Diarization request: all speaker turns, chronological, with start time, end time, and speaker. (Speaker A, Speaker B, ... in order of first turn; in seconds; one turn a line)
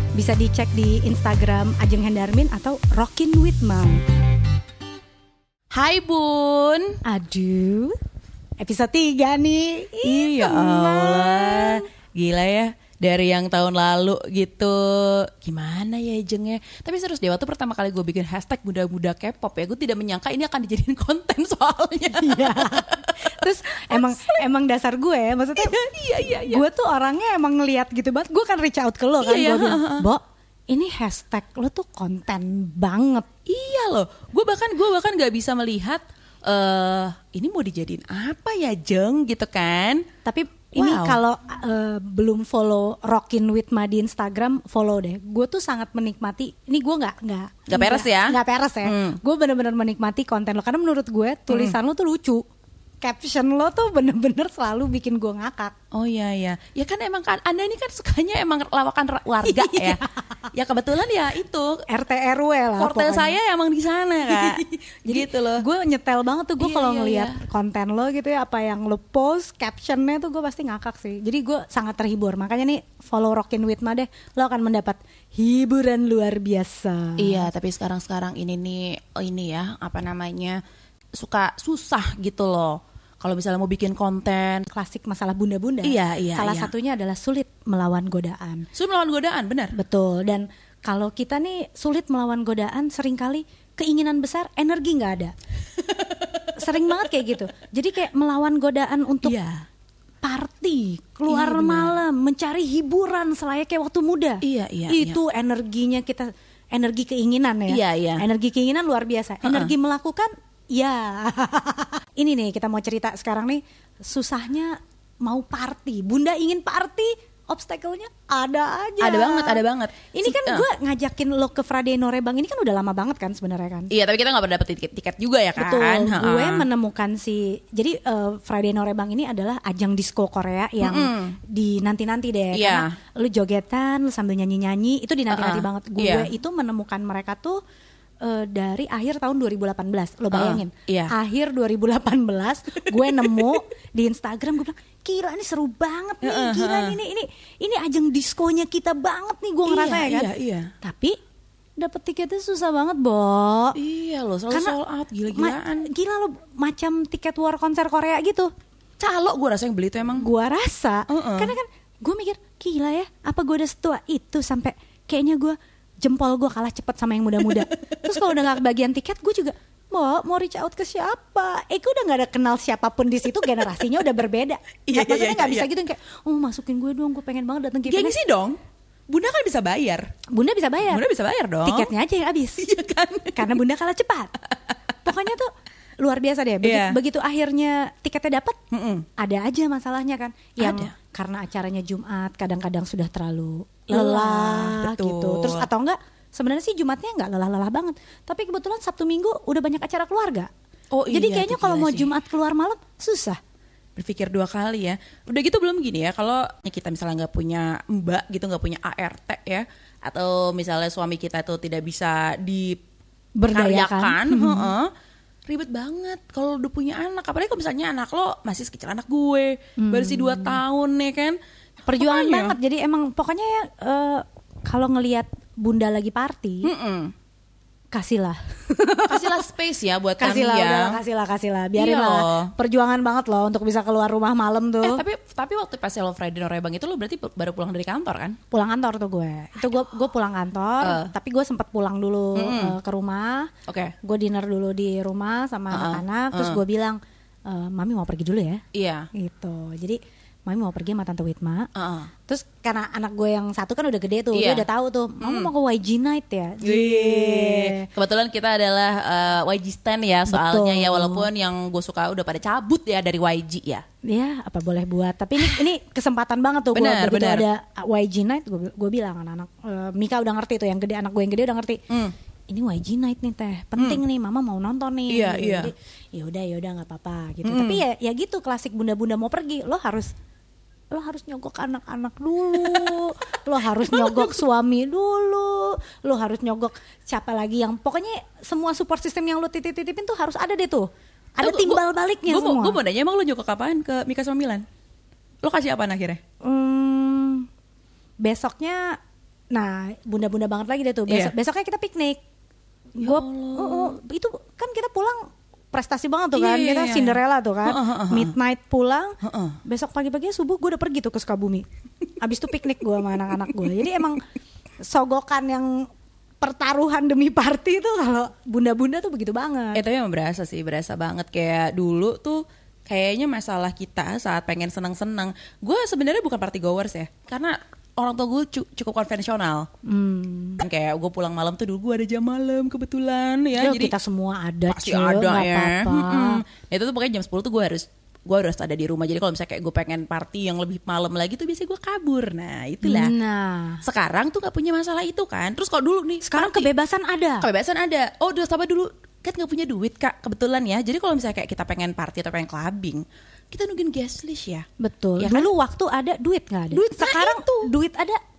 Speaker A: 0.1-4.0
Speaker B: 5.7-7.0
Speaker A: 7.0-8.0
Speaker A: 8.6-11.8
Speaker B: 10.0-23.3
Speaker A: 22.1-25.8
Speaker B: 23.9-24.4
Speaker B: 25.6-26.6
Speaker A: 26.3-33.3
Speaker B: 29.2-30.1
Speaker B: 33.5-40.0
Speaker A: 40.2-52.4
Speaker B: 40.8-41.2
Speaker B: 47.7-49.2
Speaker B: 51.5-51.8
Speaker A: 53.0-55.7
Speaker B: 55.9-60.0
Speaker A: 59.4-60.2
Speaker B: 60.5-61.8
Speaker A: 61.9-63.4
Speaker B: 62.8-65.6
Speaker A: 64.3-77.5
Speaker B: 66.6-67.4
Speaker B: 77.2-80.6
Speaker B: 81.1-84.7
Speaker A: 84.7-88.7
Speaker B: 85.8-86.7
Speaker B: 88.7-89.7
Speaker A: 89.7-95.3
Speaker B: 95.8-97.0
Speaker A: 96.5-99.3
Speaker B: 99.2-99.7
Speaker A: 100.2-119.6
Speaker B: 101.3-102.0
Speaker B: 104.4-105.2
Speaker B: 107.7-108.2
Speaker B: 109.4-109.7
Speaker B: 119.0-120.7
Speaker A: 120.1-123.9
Speaker B: 123.9-126.7
Speaker A: 125.5-137.6
Speaker B: 130.8-131.4
Speaker B: 132.5-132.9
Speaker B: 135.3-136.3
Speaker A: 138.2-150.3
Speaker B: 140.3-141.1
Speaker B: 142.9-143.5
Speaker B: 146.2-147.0
Speaker B: 149.7-150.7
Speaker A: 150.8-151.2
Speaker A: 151.8-153.8
Speaker B: 153.7-155.9
Speaker A: 154.5-154.8
Speaker A: 155.3-158.5
Speaker B: 159.0-160.3
Speaker A: 160.2-178.2
Speaker B: 161.1-161.5
Speaker B: 167.4-168.1
Speaker B: 174.9-175.7
Speaker B: 177.9-178.6
Speaker B: 179.1-180.1
Speaker A: 180.3-181.0
Speaker B: 180.9-181.9
Speaker A: 181.6-182.7
Speaker B: 182.6-183.6
Speaker A: 183.3-184.3
Speaker A: 185.0-188.6
Speaker B: 186.6-187.0
Speaker B: 188.7-189.1
Speaker A: 189.2-200.5
Speaker B: 190.6-190.9
Speaker B: 193.9-195.7
Speaker B: 200.9-202.1
Speaker A: 201.1-203.4
Speaker B: 203.9-212.8
Speaker A: 213.4-214.7
Speaker B: 213.5-214.9
Speaker B: 215.5-221.4
Speaker A: 219.8-220.6
Speaker A: 221.8-226.7
Speaker B: 221.9-222.6
Speaker B: 226.6-227.1
Speaker A: 227.9-229.4
Speaker B: 229.1-231.0
Speaker A: 230.2-235.0
Speaker B: 231.8-232.5
Speaker B: 234.8-238.4
Speaker A: 238.5-243.5
Speaker B: 240.8-241.1
Speaker B: 242.3-242.8
Speaker B: 243.7-243.9
Speaker A: 244.0-251.7
Speaker B: 245.7-246.6
Speaker B: 248.7-249.1
Speaker B: 251.7-252.1
Speaker A: 252.3-257.9
Speaker B: 254.3-254.7
Speaker B: 255.2-255.5
Speaker B: 256.6-263.8
Speaker A: 260.3-261.3
Speaker A: 264.1-271.8
Speaker B: 266.7-267.4
Speaker B: 271.9-272.1
Speaker A: 272.5-280.1
Speaker B: 275.1-275.7
Speaker B: 277.4-277.8
Speaker A: 280.9-292.8
Speaker B: 282.5-283.0
Speaker B: 283.8-284.4
Speaker B: 291.4-294.6
Speaker B: 295.4-296.2
Speaker A: 296.4-297.5
Speaker A: 298.2-299.0
Speaker A: 299.5-302.2
Speaker B: 301.1-301.3
Speaker A: 302.9-311.6
Speaker B: 303.0-303.9
Speaker B: 306.3-308.3
Speaker B: 309.2-309.6
Speaker A: 312.2-314.2
Speaker A: 314.8-315.9
Speaker A: 316.4-319.8
Speaker B: 319.7-329.7
Speaker A: 329.8-330.6
Speaker B: 330.6-333.9
Speaker A: 333.6-336.4
Speaker B: 334.7-343.1
Speaker A: 342.8-343.8
Speaker B: 343.8-346.7
Speaker A: 346.2-347.5
Speaker B: 347.4-354.6
Speaker A: 354.8-358.2
Speaker B: 355.2-355.5
Speaker B: 356.7-357.7